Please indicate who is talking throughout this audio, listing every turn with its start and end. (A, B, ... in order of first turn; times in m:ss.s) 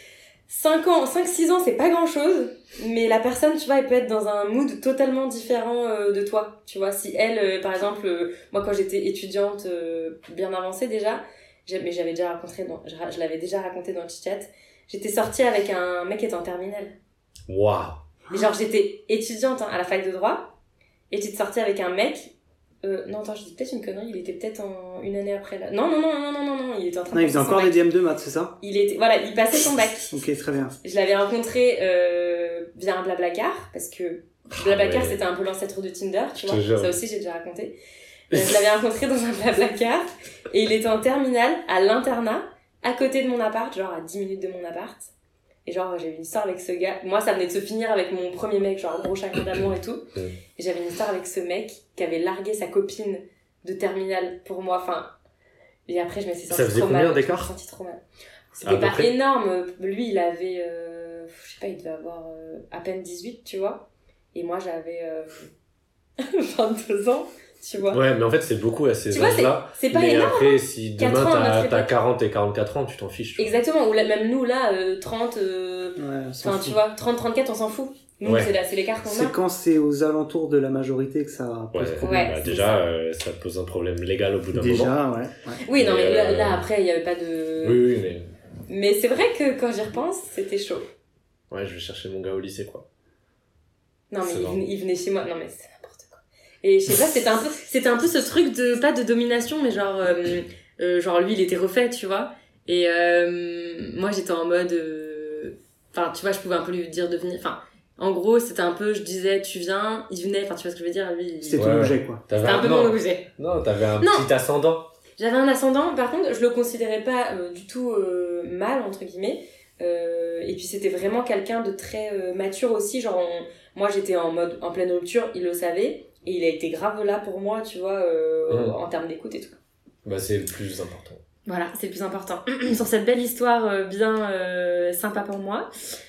0:00.5-0:17.0 A
0:17.5-0:18.0 B
0:18.3-0:20.5 A
0:21.1-0:27.8 A
0:27.1-0:28.6 C
0:28.6-0:30.1 A
0:30.1-0:30.8 C
0:30.8-0:37.8 A
0:34.6-0:35.2 B
0:36.4-0:37.0 B
0:38.3-0:45.1 A
0:45.6-0:50.0 A
0:50.6-0:55.1 A
0:55.9-0:58.0 A
0:56.5-0:57.5 B
0:58.5-1:05.5 A
0:58.6-0:59.1 B
1:06.2-1:08.0 A
1:07.9-1:13.5 B
1:09.1-1:11.9 A
1:13.4-1:19.3 A
1:16.0-1:16.8 C
1:18.2-1:18.5 B
1:19.0-1:22.7 C
1:21.7-1:25.0 B
1:22.0-1:22.8 A
1:24.5-1:25.6 C
1:25.6-1:27.8 A
1:25.7-1:26.6 B
1:27.6-1:28.3 B
1:28.7-1:30.9 A
1:31.5-1:32.8 B
1:34.1-1:51.7 A
1:34.2-1:34.6 B
1:51.4-1:52.2 C
1:51.6-1:54.9 B
1:52.4-1:53.3 A
1:54.0-1:54.2 A
1:55.2-2:09.6 A
2:08.5-2:08.8 B
2:10.0-2:11.2 B
2:11.4-2:15.7 A